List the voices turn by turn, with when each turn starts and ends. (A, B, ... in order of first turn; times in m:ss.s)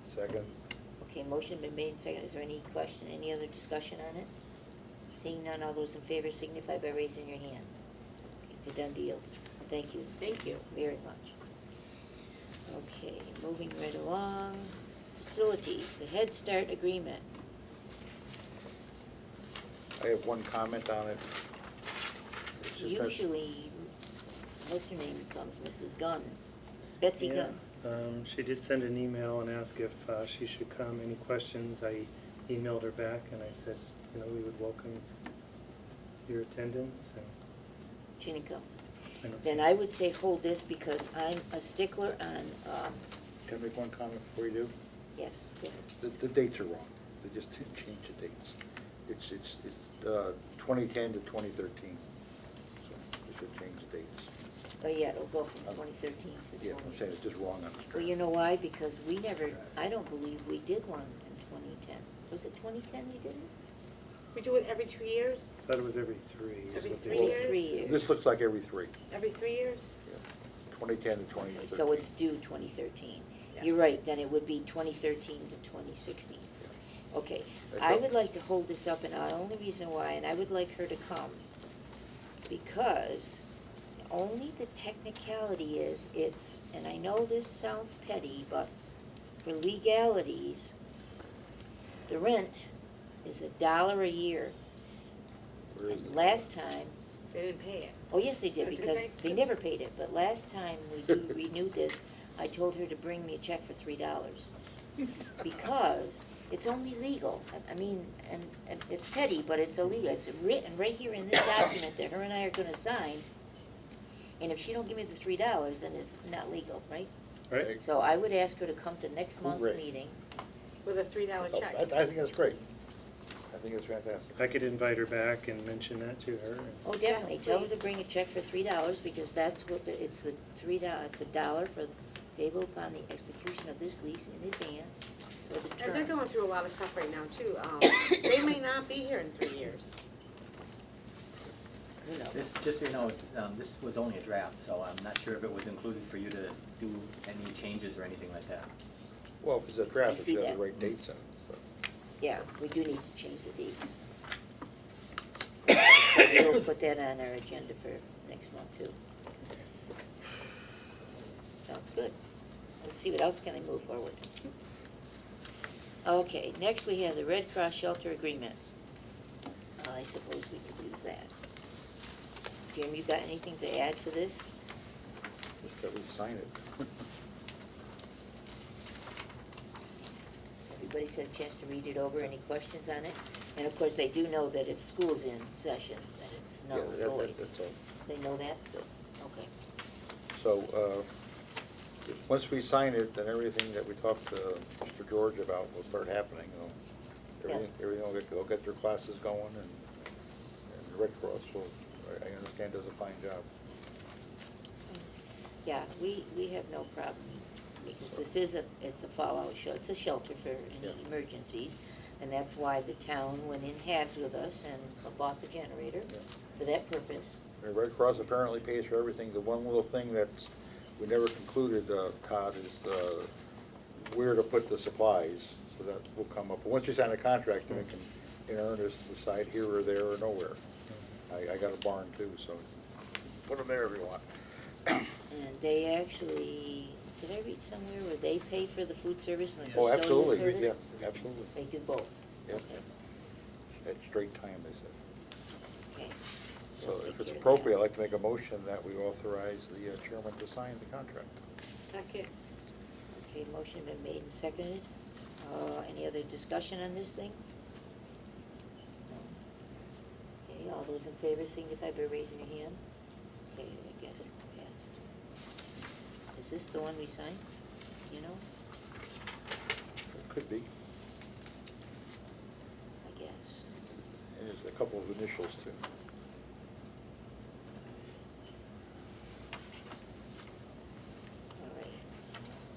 0:00.1-0:00.5 A
0:01.0-0:04.3 B
0:05.1-0:07.7 B
0:08.5-0:11.4 B
0:10.2-0:10.6 C
0:12.7-0:17.2 B
0:20.0-0:21.3 A
0:22.6-0:23.2 A
0:22.8-0:23.9 B
0:24.6-0:26.4 B
0:27.0-0:27.6 B
0:27.2-0:35.0 D
0:36.2-0:37.3 D
0:38.2-0:38.7 B
0:39.2-0:39.7 D
0:39.4-0:43.0 B
0:43.4-0:44.7 A
0:45.2-0:45.9 B
0:46.0-0:48.6 A
0:49.1-0:52.0 A
0:52.8-0:54.3 A
0:54.8-0:57.0 B
0:56.6-0:58.1 A
0:57.9-1:03.5 B
1:04.3-1:05.6 C
1:05.6-1:07.4 D
1:06.7-1:07.7 C
1:07.0-1:08.1 B
1:07.1-1:08.9 A
1:09.1-1:09.9 C
1:10.1-1:12.1 A
1:11.6-1:16.5 B
1:17.1-1:21.4 B
1:17.7-1:18.0 A
1:22.5-1:23.4 B
1:24.1-1:28.7 B
1:29.4-1:30.7 B
1:32.1-1:32.7 B
1:33.2-1:34.6 B
1:35.7-1:36.4 A
1:35.9-1:37.0 B
1:37.3-1:38.0 C
1:38.1-1:44.5 B
1:38.7-1:39.2 C
1:45.4-1:53.3 B
1:54.4-1:57.1 B
1:57.6-1:57.8 A
1:57.8-2:00.2 B
1:59.4-1:59.8 A
2:00.8-2:01.9 C
2:01.4-2:02.6 A
2:03.5-2:04.4 A
2:04.4-2:06.9 D
2:06.8-2:16.2 B
2:07.0-2:07.8 C
2:15.8-2:19.9 C
2:22.0-2:22.4 B
2:22.3-2:28.7 E
2:29.4-2:31.6 A
2:30.1-2:30.6 B
2:32.2-2:34.0 B
2:35.7-2:39.0 B
2:41.6-2:42.2 B
2:42.8-2:44.3 B
2:46.0-2:48.6 B
2:49.8-2:51.3 B
2:52.7-2:54.5 B
2:55.6-2:56.9 A
3:00.7-3:07.4 B
3:06.7-3:07.8 A
3:08.0-3:09.5 B
3:10.3-3:11.1 A
3:12.2-3:16.8 A
3:17.4-3:19.9 A
3:20.7-3:23.5 A
3:25.6-3:37.4 B
3:27.9-3:28.2 A
3:37.6-3:43.3 A
3:44.0-3:50.6 A
3:51.3-3:52.6 A
3:53.4-3:54.3 A
3:55.3-4:00.8 B
3:59.7-4:01.5 A
4:01.5-4:02.8 B
4:03.8-4:05.0 A
4:05.9-4:06.2 B
4:06.8-4:07.7 B
4:06.8-4:11.4 A
4:11.9-4:12.3 C
4:13.1-4:14.9 B
4:15.4-4:17.4 B
4:19.1-4:19.4 B
4:20.4-4:22.8 B
4:23.5-4:25.0 B
4:26.4-4:27.4 B
4:28.1-4:28.4 B
4:30.1-4:30.7 A
4:33.0-4:33.7 B
4:34.3-4:35.9 A
4:41.6-4:42.1 B